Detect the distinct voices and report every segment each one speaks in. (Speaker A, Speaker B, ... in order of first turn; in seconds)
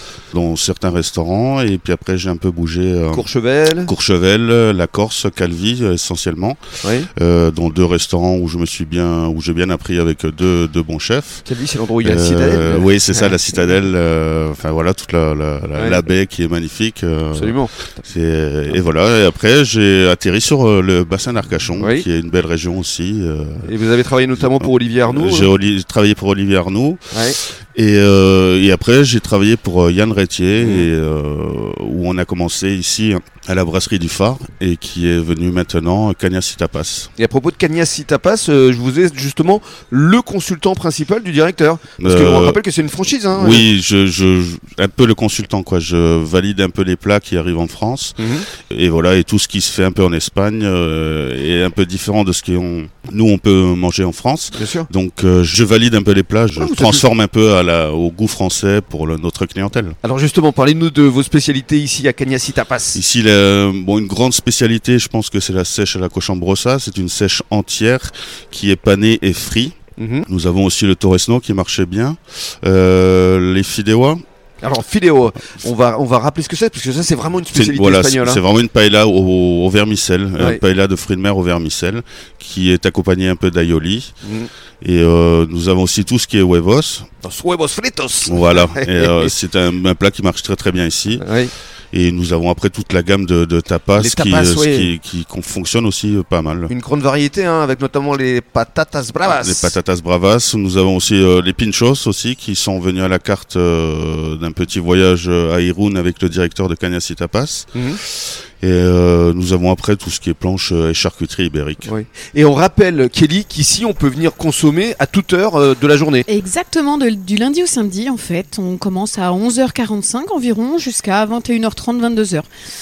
Speaker A: 0.3-3.2, 3.9-6.6, 7.1-11.5, 12.0-23.7, 24.4-27.0, 27.7-37.1, 42.0-42.6, 43.4-60.0, 62.9-74.2, 77.5-84.1, 84.8-87.1, 88.2-91.2, 91.9-96.7, 99.3-111.9
Speaker B: 3.1-3.9, 6.8-7.1, 11.4-13.4, 15.8-16.0, 17.3-17.8, 21.8-22.1, 23.6-25.5, 27.1-27.4, 30.6-30.9, 37.2-43.7, 48.2-48.5, 54.5-54.9, 56.6-57.0, 60.0-63.0, 70.0-70.3, 74.6-78.4, 84.2-84.5, 87.2-89.3, 91.2-91.5, 94.0-94.9, 96.7-99.8, 111.8-116.3
Speaker C: 116.3-122.5